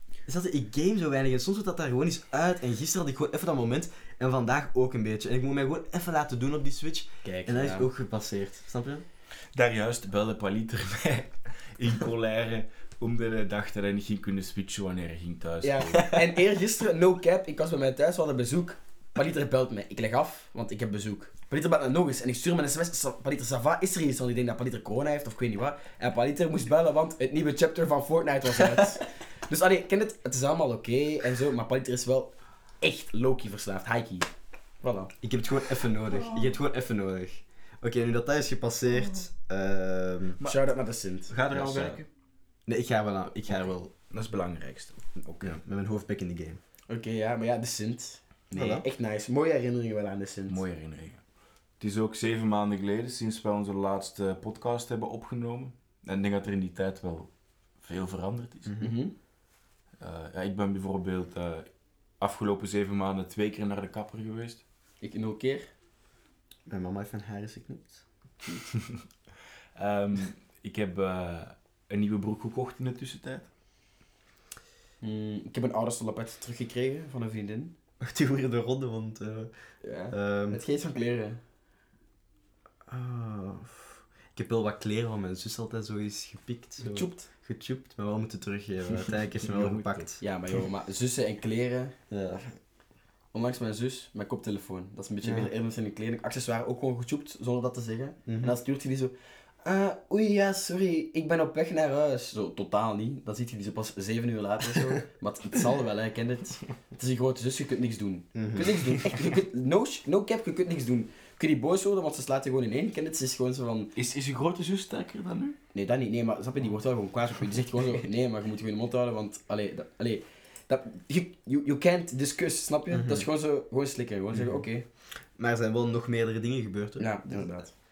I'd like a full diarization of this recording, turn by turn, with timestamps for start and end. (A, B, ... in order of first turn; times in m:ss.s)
0:00.2-0:09.0 A
0:07.2-0:07.9 B
0:09.5-0:16.0 C
0:15.6-0:34.3 B
0:34.8-0:35.1 B
0:35.2-0:40.4 A
0:36.2-0:36.5 C
0:40.4-0:40.7 C
0:40.4-0:41.3 B
0:41.3-0:42.1 C
0:41.5-0:42.0 A
0:42.6-0:43.9 A
0:44.1-0:45.6 C
0:45.4-0:46.6 A
0:46.9-0:50.6 B
0:48.5-0:48.8 A
0:50.5-0:51.2 C
0:51.8-0:57.3 C
0:57.8-0:58.8 C
0:58.7-0:59.0 A
0:58.8-0:59.1 B
1:00.0-1:01.7 C
1:02.2-1:04.6 C
1:05.0-1:05.7 B
1:06.7-1:08.0 A
1:09.8-1:13.5 C
1:15.0-1:17.7 B
1:18.0-1:19.5 A
1:19.8-1:21.4 B
1:20.1-1:20.6 A
1:22.9-1:30.2 A
1:26.8-1:27.3 B
1:29.4-1:30.1 C
1:30.2-1:31.9 B
1:32.1-1:32.4 A
1:33.3-1:53.9 B
1:35.2-1:35.5 A
1:38.2-1:38.5 A
1:48.3-1:48.8 A
1:54.0-1:55.6 C
1:55.7-2:04.8 B
2:02.9-2:03.3 A
2:04.3-2:04.6 A
2:05.4-2:07.6 A
2:07.0-2:07.7 B